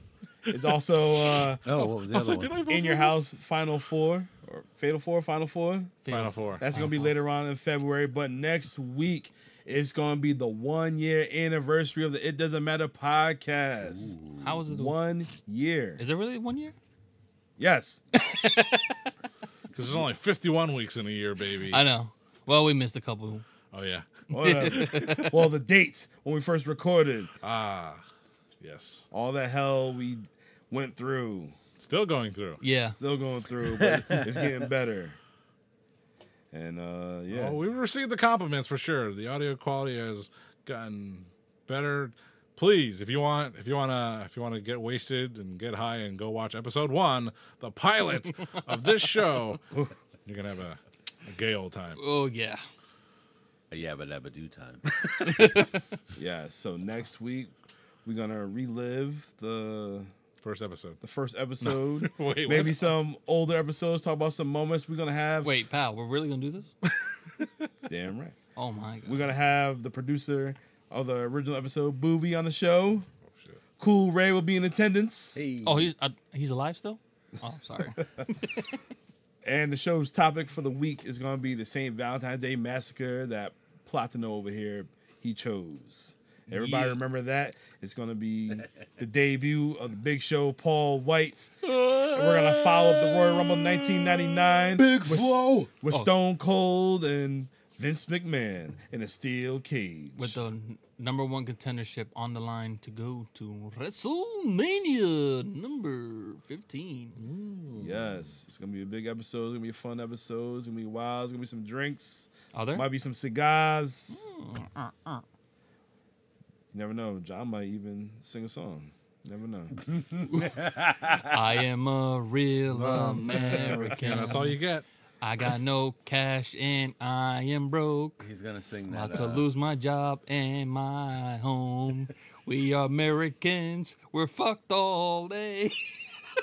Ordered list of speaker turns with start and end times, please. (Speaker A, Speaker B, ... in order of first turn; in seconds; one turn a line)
Speaker A: 0.5-1.6
Speaker B: 1.5-3.3
Speaker C: 1.6-2.6
Speaker A: 2.6-6.0
Speaker D: 6.0-7.1
Speaker B: 6.1-6.6
Speaker A: 6.6-16.0
Speaker C: 13.8-14.6
Speaker D: 14.4-15.0
Speaker D: 16.0-16.7
Speaker A: 17.6-18.0
Speaker D: 18.1-19.0
Speaker B: 19.7-21.8
Speaker D: 21.7-23.4
Speaker B: 23.7-24.1
Speaker D: 24.3-25.3
Speaker A: 24.3-27.3
Speaker B: 24.6-25.2
Speaker B: 27.4-28.0
Speaker B: 28.6-29.1
Speaker A: 29.1-31.6
Speaker B: 31.8-32.6
Speaker D: 32.6-33.0
Speaker A: 33.0-35.2
Speaker C: 33.7-34.5
Speaker A: 36.5-37.6
Speaker B: 37.3-49.7
Speaker B: 50.2-52.0
Speaker D: 52.0-52.6
Speaker C: 53.7-54.8
Speaker D: 55.1-55.9
Speaker A: 56.1-57.5
Speaker A: 58.0-60.1
Speaker B: 60.4-61.0
Speaker A: 61.0-65.5
Speaker B: 61.6-62.9
Speaker D: 65.4-66.7
Speaker A: 67.9-68.4
Speaker D: 68.5-69.3
Speaker A: 69.0-73.0
Speaker B: 73.3-73.6
Speaker A: 73.8-75.4
Speaker C: 75.3-75.9
Speaker D: 75.6-78.8
Speaker A: 79.4-100.4
Speaker D: 86.5-87.0
Speaker C: 94.8-95.7
Speaker D: 100.2-107.2
Speaker B: 107.2-108.0
Speaker A: 107.8-114.3
Speaker D: 112.5-112.9
Speaker D: 114.1-115.2
Speaker A: 116.7-119.7
Speaker C: 119.8-121.3
Speaker D: 121.2-124.6
Speaker A: 122.7-124.2
Speaker B: 123.1-124.8
Speaker D: 125.2-128.2
Speaker C: 128.2-129.4
Speaker D: 128.9-136.1